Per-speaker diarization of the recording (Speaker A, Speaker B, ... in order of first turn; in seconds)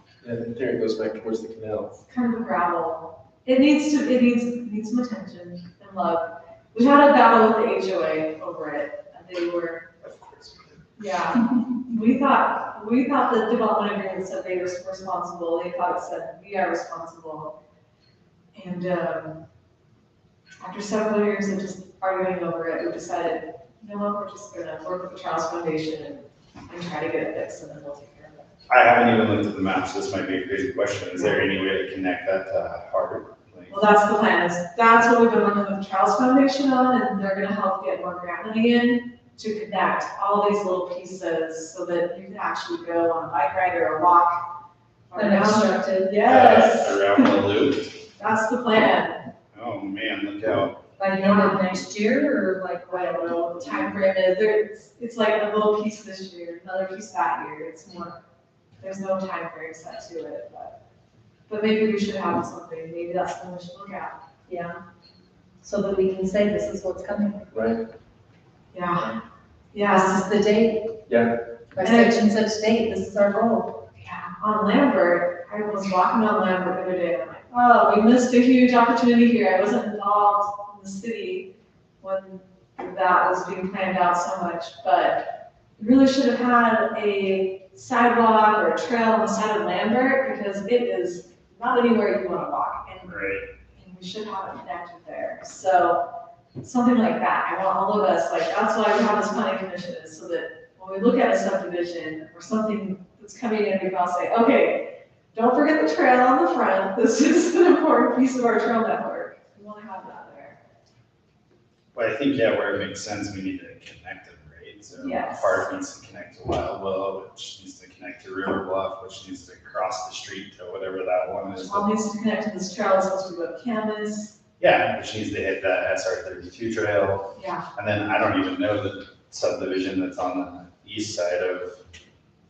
Speaker A: 0.2-2.0, 67.5-67.8, 71.1-71.3
Speaker B: 2.1-9.9, 11.0-17.6, 18.5-19.4, 20.6-28.5, 31.2-31.4, 33.7-47.3, 48.2-49.3, 51.2-51.6, 52.9-58.2, 58.8-60.8, 61.5-64.2, 68.7-69.2, 69.7-70.3, 71.8-72.2, 74.0-96.1, 96.6-110.6, 114.9-115.7, 121.5-124.4, 127.4-127.7
Speaker C: 10.0-10.8, 28.7-33.8, 46.2-47.9, 49.5-50.8, 93.0-93.5, 111.9-121.9, 124.6-131.8
Speaker D: 45.1-46.2, 51.0-53.9, 64.5-64.8, 65.6-67.5, 69.8-71.0, 71.7-73.8